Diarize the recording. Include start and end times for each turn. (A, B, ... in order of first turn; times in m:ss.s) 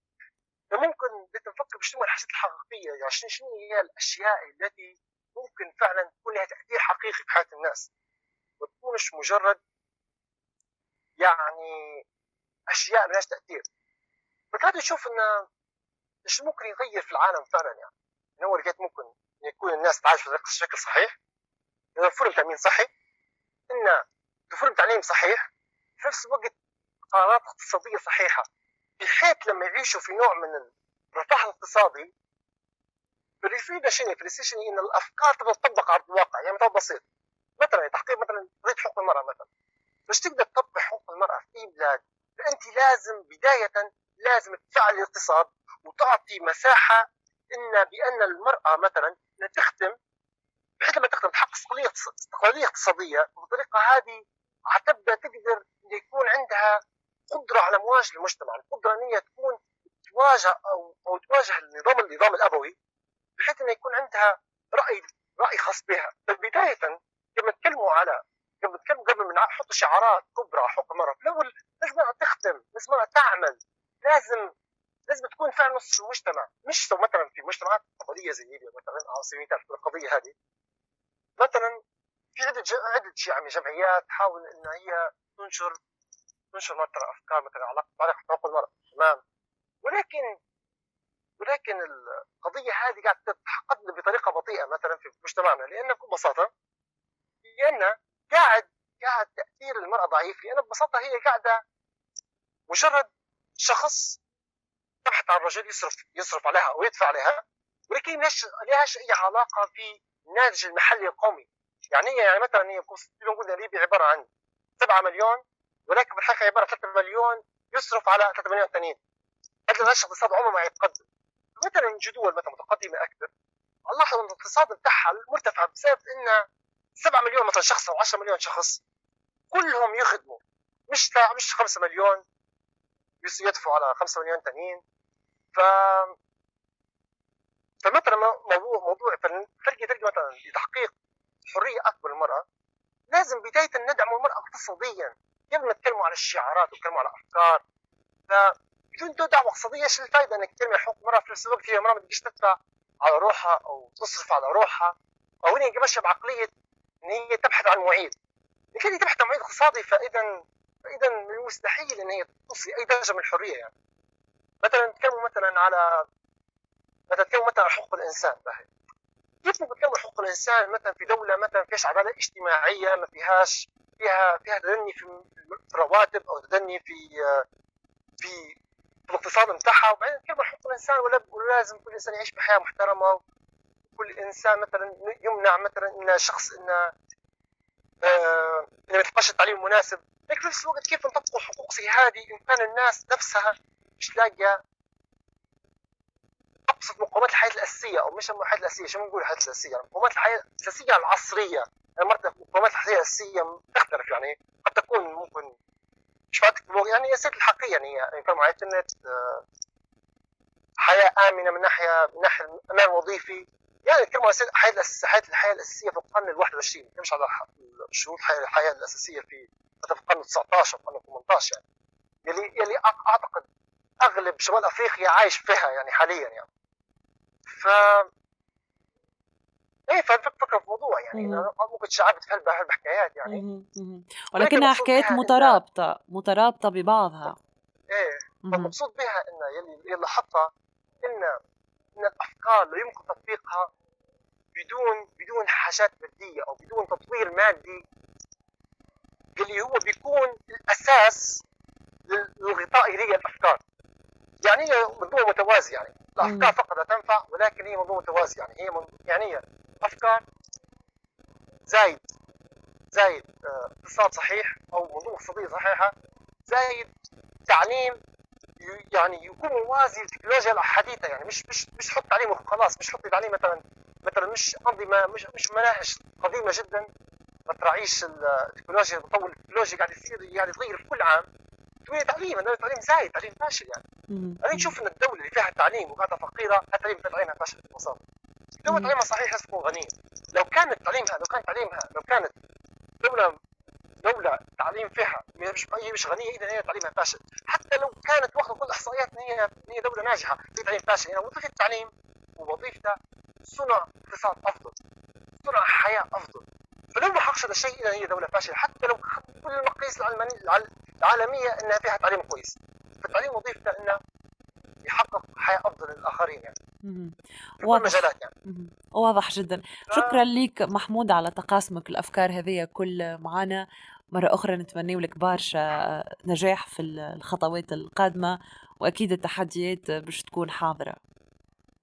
0:00.7-0:07.9 A
0:08.6-0:09.6 A
0:11.2-0:12.0 A
0:12.7-0:13.7 A
0:14.5-0:15.4 A
0:16.2-0:21.1 A
0:22.0-0:22.9 A
0:23.7-0:26.5 A
0:27.1-0:28.4 A
0:29.0-0:32.1 A
0:33.4-0:37.0 A
0:37.6-0:39.5 A
0:40.1-0:49.9 A
0:50.8-0:56.8 A
0:57.3-1:02.7 A
1:03.4-1:14.5 A
1:15.1-1:20.3 A
1:21.4-1:21.8 A
1:22.3-1:25.8 A
1:26.5-1:29.2 A
1:29.8-1:30.3 A
1:31.4-1:36.5 A
1:37.6-1:41.6 A
1:42.7-1:43.1 A
1:43.6-1:44.2 A
1:45.0-1:54.3 A
1:54.8-1:59.0 A
1:59.7-2:01.0 A
2:01.6-2:03.3 A
2:03.9-2:06.4 A
2:07.0-2:08.8 A
2:09.5-2:12.2 A
2:13.2-2:14.8 A
2:15.5-2:16.1 A
2:17.8-2:20.9 A
2:21.5-2:22.4 A
2:23.1-2:27.6 A
2:28.3-2:36.5 A
2:37.0-2:38.1 A
2:38.7-2:40.3 A
2:40.9-2:43.7 A
2:44.6-2:46.0 A
2:47.1-2:48.7 A
2:49.4-2:57.4 A
2:58.2-2:58.6 A
2:59.1-3:03.2 A
3:03.9-3:06.9 A
3:08.0-3:14.6 A
3:16.7-3:25.5 A
3:26.3-3:29.4 A
3:30.8-3:41.6 A
3:42.2-3:43.5 A
3:44.0-3:46.5 A
3:47.5-3:48.1 A
3:49.9-3:53.4 A
3:51.1-3:51.5 B
3:53.3-3:57.3 B
3:54.4-3:55.6 A
3:57.9-4:00.5 A
3:58.4-3:58.7 B
4:01.0-4:01.4 A
4:02.0-4:03.7 A
4:04.5-4:07.8 A
4:09.4-4:11.4 A
4:12.1-4:13.6 A
4:14.4-4:20.2 A
4:16.2-4:16.5 B
4:21.7-4:22.0 A
4:22.9-4:25.9 A
4:26.5-4:26.9 A
4:27.5-4:28.0 A
4:28.6-4:36.9 A
4:37.5-4:41.2 A
4:41.8-4:43.8 A
4:44.1-4:44.7 B
4:44.4-4:48.0 A
4:48.6-4:52.3 A
4:48.7-4:48.9 B
4:53.0-4:53.3 A
4:54.0-5:04.8 A
5:05.4-5:14.0 A
5:14.8-5:16.5 A
5:16.8-5:23.6 B
5:17.6-5:18.3 A
5:19.9-5:20.2 A
5:24.1-5:31.0 B